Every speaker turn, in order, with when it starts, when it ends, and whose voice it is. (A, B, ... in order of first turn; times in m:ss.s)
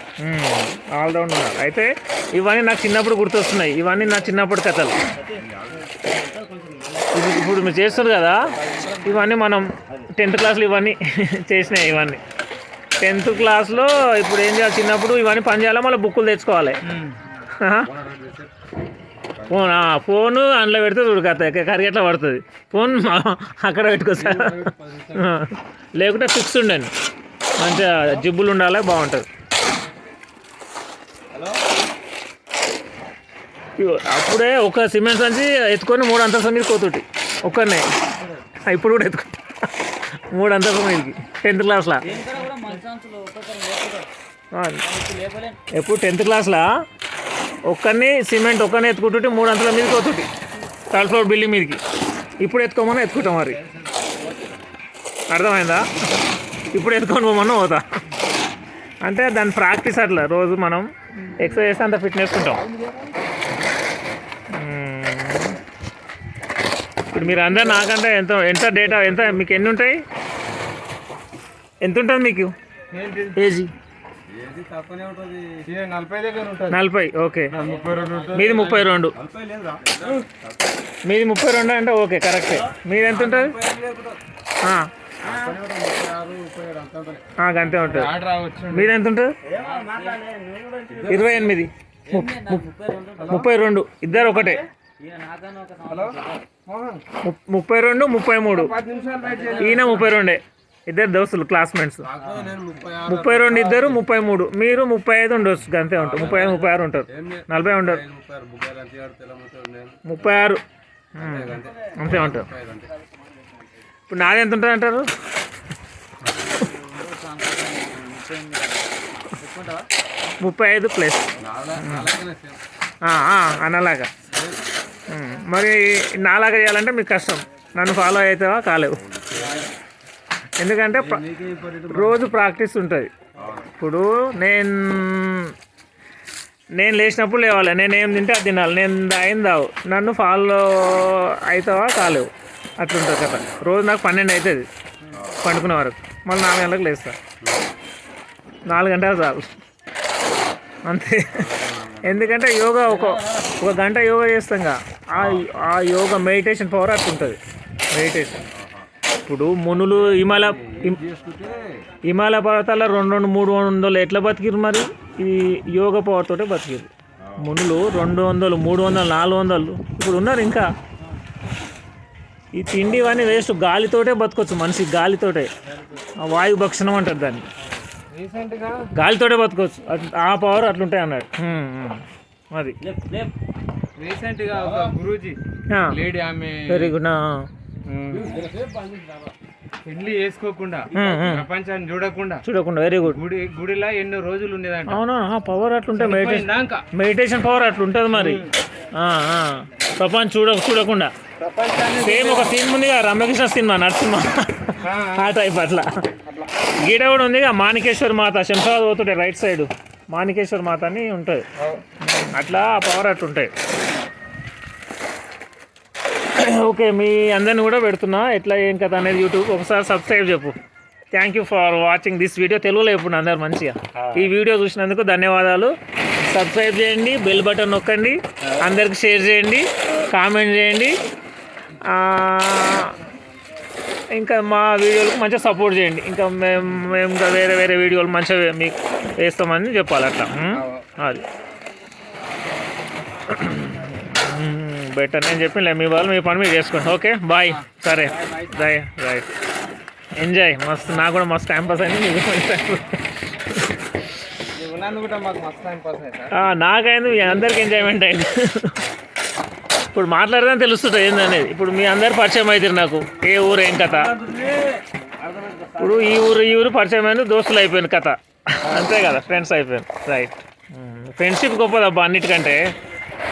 0:00.2-0:05.0 A
0:05.2-0:07.1 B
0:07.1-0:12.2 A
0:08.8-0:09.1 C
0:13.0-0:16.8 A
0:16.8-0:17.2 C
0:17.6-0:17.9 A
0:17.8-0:18.5 C
0:19.4-0:19.7 C
0:19.5-0:26.9 A
0:24.1-0:25.3 C
0:27.6-0:29.2 A
0:31.3-0:31.6 B
0:33.8-0:37.9 A
0:38.6-0:42.1 A
0:42.0-0:44.1 B
0:42.4-0:42.8 C
0:44.5-0:44.8 A
0:44.8-0:45.6 B
0:45.7-0:46.7 A
0:47.6-0:50.3 A
0:50.9-0:51.8 A
0:52.4-0:53.6 A
0:53.2-0:54.0 C
0:55.3-0:55.9 A
0:56.7-0:57.8 A
0:59.0-1:02.6 A
1:04.5-1:05.6 A
1:07.1-1:10.0 A
1:07.1-1:07.8 C
1:08.8-1:09.4 C
1:11.8-1:12.5 A
1:12.9-1:13.4 C
1:13.4-1:13.7 A
1:14.3-1:16.8 C
1:16.7-1:17.6 A
1:17.5-1:20.2 C
1:17.6-1:18.8 B
1:18.3-1:19.1 A
1:21.0-1:23.6 A
1:23.0-1:24.2 C
1:24.6-1:24.9 A
1:25.2-1:25.6 B
1:25.2-1:27.2 C
1:27.4-1:28.1 A
1:27.8-1:28.9 C
1:28.7-1:29.4 A
1:29.4-1:33.4 B
1:31.0-1:31.4 C
1:31.1-1:32.6 A
1:33.2-1:33.5 C
1:33.2-1:34.6 A
1:34.1-1:36.4 B
1:35.9-1:37.0 C
1:37.2-1:38.8 A
1:38.4-1:40.1 C
1:38.9-1:40.0 B
1:39.6-1:42.1 A
1:42.0-1:44.0 C
1:42.2-1:42.8 B
1:43.0-1:48.0 A
1:46.0-1:50.0 C
1:46.2-1:46.7 B
1:50.0-1:50.6 A
1:51.1-1:52.5 A
1:51.1-1:52.9 C
1:54.1-1:55.1 A
1:56.2-1:59.9 B
2:00.4-2:02.1 A
2:01.4-2:02.6 C
2:03.0-2:04.1 A
2:04.3-2:04.6 C
2:05.1-2:09.0 A
2:09.3-2:09.7 B
2:09.3-2:09.6 C
2:10.6-2:11.2 A
2:10.9-2:12.4 C
2:11.9-2:13.1 A
2:13.4-2:13.7 C
2:13.8-2:15.5 A
2:16.7-2:24.7 A
2:25.0-2:25.3 B
2:25.4-2:27.2 A
2:28.6-2:29.5 A
2:30.8-2:37.4 A
2:31.4-2:32.4 C
2:32.8-2:33.7 B
2:35.2-2:35.5 C
2:37.9-2:38.4 A
2:38.5-2:38.8 C
2:39.2-2:41.0 A
2:40.0-2:41.8 C
2:42.0-2:50.7 A
2:52.5-2:55.5 A
2:56.2-2:57.4 A
2:57.8-2:58.8 C
2:58.9-3:02.8 A
3:02.8-3:03.3 B
3:04.0-3:06.9 C
3:05.7-3:06.0 A
3:06.7-3:07.5 A
3:07.8-3:08.4 C
3:08.1-3:09.3 B
3:09.8-3:12.4 C
3:10.9-3:11.2 B
3:10.9-3:11.5 A
3:12.4-3:13.2 A
3:13.0-3:15.0 C
3:14.9-3:18.4 A
3:16.0-3:16.8 C
3:18.1-3:18.5 C
3:19.0-3:21.1 A
3:21.4-3:22.5 C
3:22.0-3:25.9 A
3:24.8-3:25.3 C
3:26.3-3:26.6 C
3:26.8-3:31.4 A
3:31.6-3:31.8 C
3:32.1-3:33.5 A
3:36.3-3:40.6 A
3:41.1-3:45.7 A
3:44.0-3:44.3 C
3:46.2-3:51.0 A
3:51.8-3:53.0 A
3:54.1-4:01.2 A
4:00.5-4:00.9 C
4:03.3-4:09.3 A
4:07.5-4:08.8 B
4:10.1-4:12.9 A
4:14.4-4:16.4 C
4:16.3-4:18.8 A
4:19.9-4:24.1 A
4:24.0-4:26.3 B
4:25.8-4:32.7 A